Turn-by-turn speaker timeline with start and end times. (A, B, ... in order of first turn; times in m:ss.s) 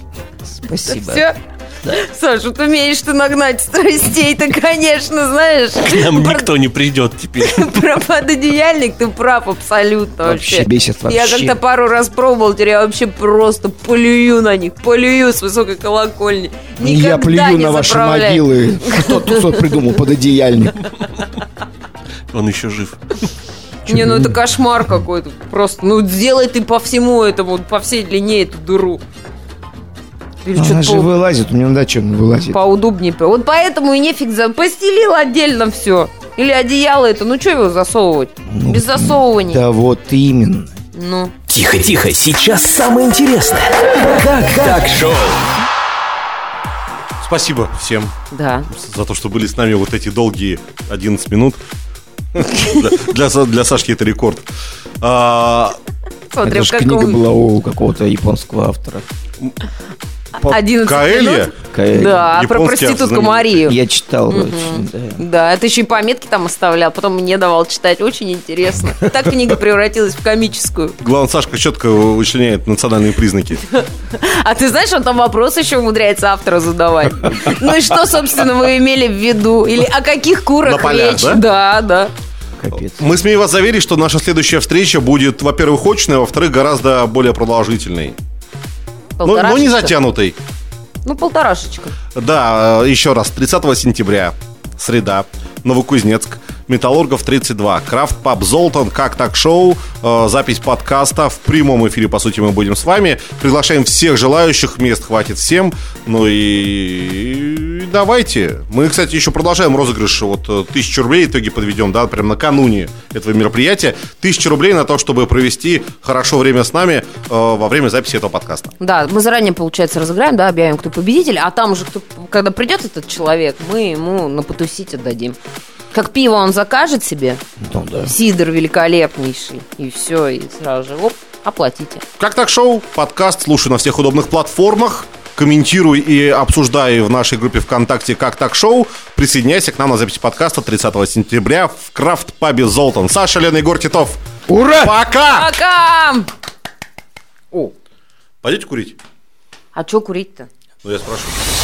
0:00.4-0:01.3 A
0:00.8-0:06.5 B
0:05.8-0:07.8 C
0:07.4-0:19.7 B
0:10.2-0:11.6 A
0:16.8-0:20.8 A
0:22.3-0:23.2 C
0:23.8-0:24.4 A
0:23.9-0:29.0 B
0:30.4-0:31.1 B
0:30.5-0:32.6 A
0:32.5-0:39.6 B
0:38.5-0:40.8 A
0:40.9-0:41.3 B
0:41.5-0:45.4 D
0:47.2-0:48.1 E
0:48.3-0:48.7 B
0:48.7-0:51.6 E
0:52.3-0:54.5 E
0:55.0-0:55.8 E
0:56.3-0:57.2 B
0:56.4-0:59.0 A
1:00.4-1:03.8 B
1:00.8-1:01.6 E
1:01.7-1:02.3 A
1:02.1-1:03.6 E
1:03.6-1:05.2 A
1:04.3-1:11.0 B
1:11.0-1:13.6 E
1:13.7-1:22.1 B
1:20.6-1:21.4 E
1:22.6-1:23.0 A
1:23.0-1:28.2 E
1:29.2-1:29.9 B
1:29.2-1:30.4 E
1:31.0-1:32.0 B
1:32.1-1:58.7 E
1:58.8-2:05.4 B
2:05.9-2:07.4 B
2:07.6-2:08.1 A
2:08.0-2:12.0 B
2:12.2-2:24.2 E
2:24.5-2:25.0 A
2:24.8-2:25.5 E
2:25.3-2:26.3 B
2:28.4-2:29.0 E
2:29.7-2:30.5 B
2:30.8-2:31.4 E